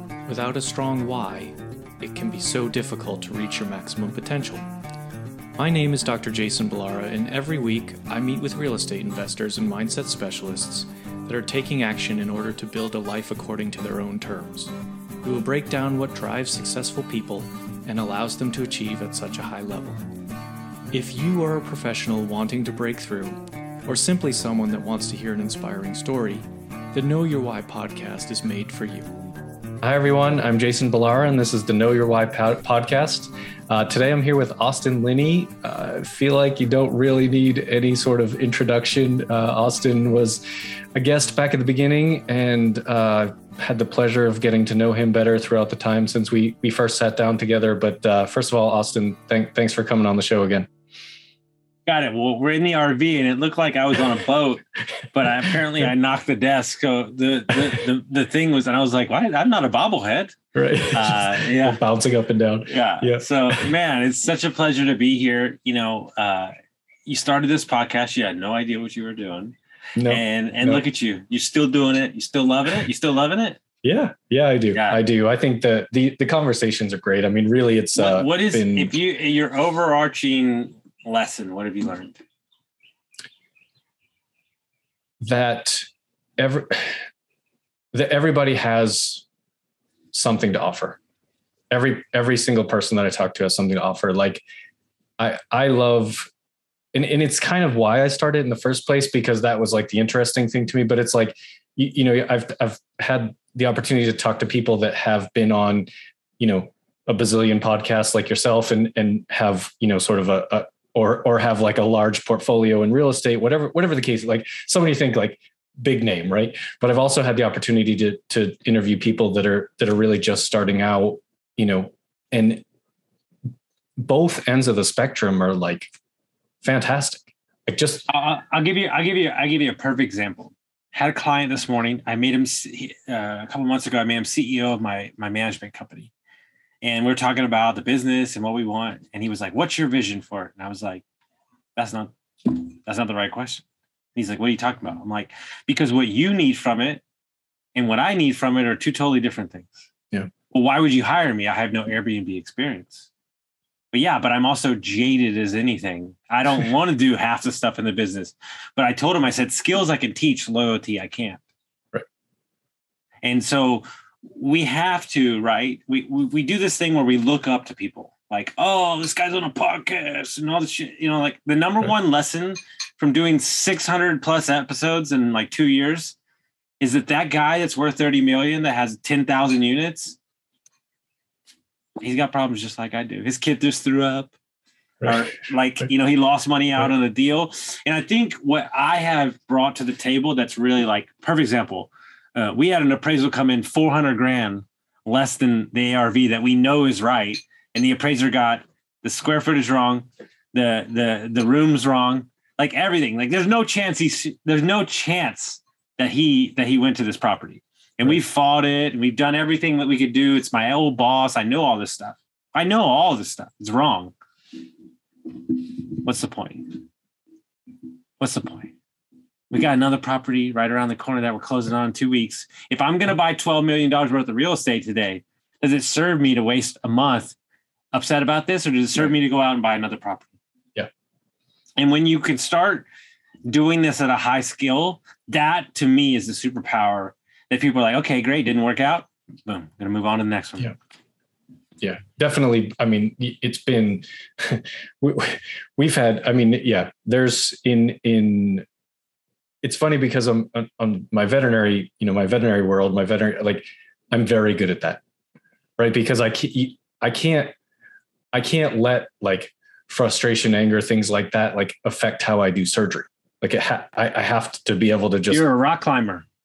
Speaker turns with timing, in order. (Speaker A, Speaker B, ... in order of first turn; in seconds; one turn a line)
Speaker A: 0.3-4.6
Speaker A: 5.6-14.7
Speaker A: 15.2-20.0
Speaker A: 20.9-29.1
Speaker A: 29.8-40.4
Speaker A: 40.9-50.7
Speaker B: 51.9-54.6
Speaker B: 55.1-60.4
Speaker A: 60.5-63.7
Speaker B: 60.9-61.8
Speaker B: 62.6-66.5
Speaker B: 67.0-69.5
Speaker A: 70.0-70.8
Speaker B: 70.1-73.6
Speaker A: 73.8-78.9
Speaker B: 74.7-75.0
Speaker B: 78.0-82.2
Speaker A: 85.2-85.8
Speaker A: 86.4-87.0
Speaker A: 87.9-89.2
Speaker A: 90.1-91.0
Speaker A: 91.7-94.4
Speaker A: 95.2-96.3
Speaker A: 96.9-105.9
Speaker A: 106.4-122.6
Speaker A: 124.0-125.9
Speaker A: 126.6-128.1
Speaker B: 128.1-136.1
Speaker B: 136.8-141.0
Speaker B: 141.8-143.6
Speaker B: 144.1-147.0
Speaker B: 147.7-149.8
Speaker B: 150.5-153.1
Speaker B: 153.9-161.4
Speaker B: 163.2-176.2
Speaker B: 176.8-180.2
Speaker B: 182.0-184.3
Speaker B: 185.0-214.1
Speaker B: 215.5-216.8
Speaker B: 218.2-218.7
Speaker B: 219.5-227.3
Speaker B: 227.9-230.3
Speaker B: 231.8-232.8
Speaker B: 233.4-240.7
Speaker A: 241.8-248.6
Speaker A: 249.6-255.0
Speaker A: 255.8-257.5
Speaker A: 258.3-265.4
Speaker B: 265.3-266.2